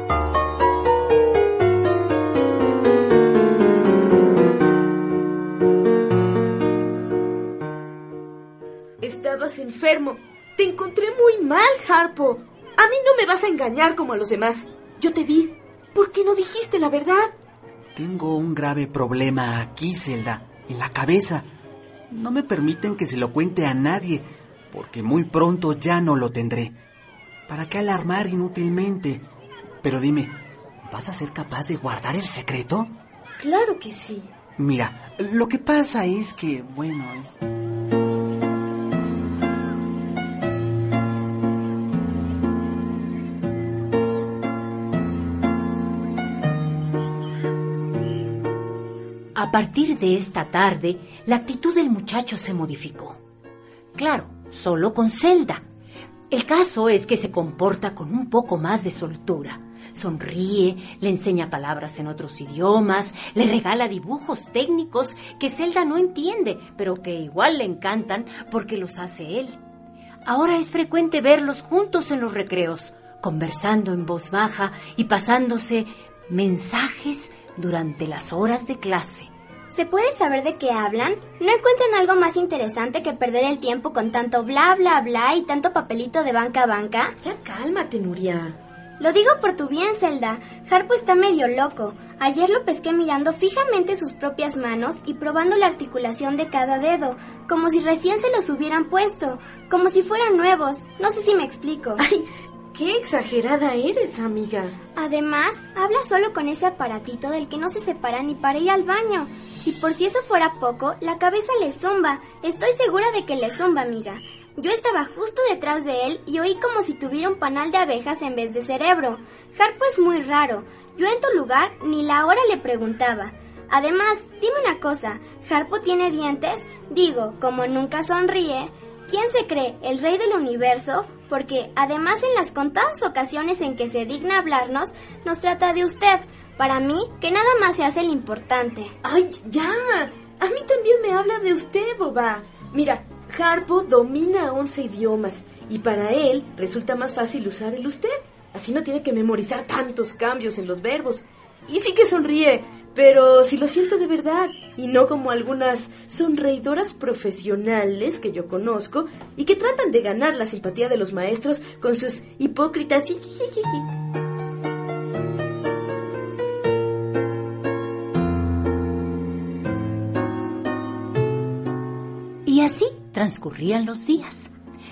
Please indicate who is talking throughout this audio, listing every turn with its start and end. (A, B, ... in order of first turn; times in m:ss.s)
0:09.0-0:17.3 A
0:17.9-0:21.5 B
0:22.1-0:26.8 B
0:27.5-0:29.2 B
0:29.8-0:32.9 B
0:33.4-0:34.3 A
0:34.6-0:37.4 B
0:49.3-0:53.2 C
0:54.0-0:55.6 C
0:56.3-1:09.6 C
1:10.2-1:19.3 C
1:19.7-1:27.1 D
1:27.2-1:28.6 A
1:29.0-1:42.0 D
1:42.0-1:44.8 A
1:45.0-2:18.9 D
2:19.0-2:43.9 A
2:52.4-2:54.5 C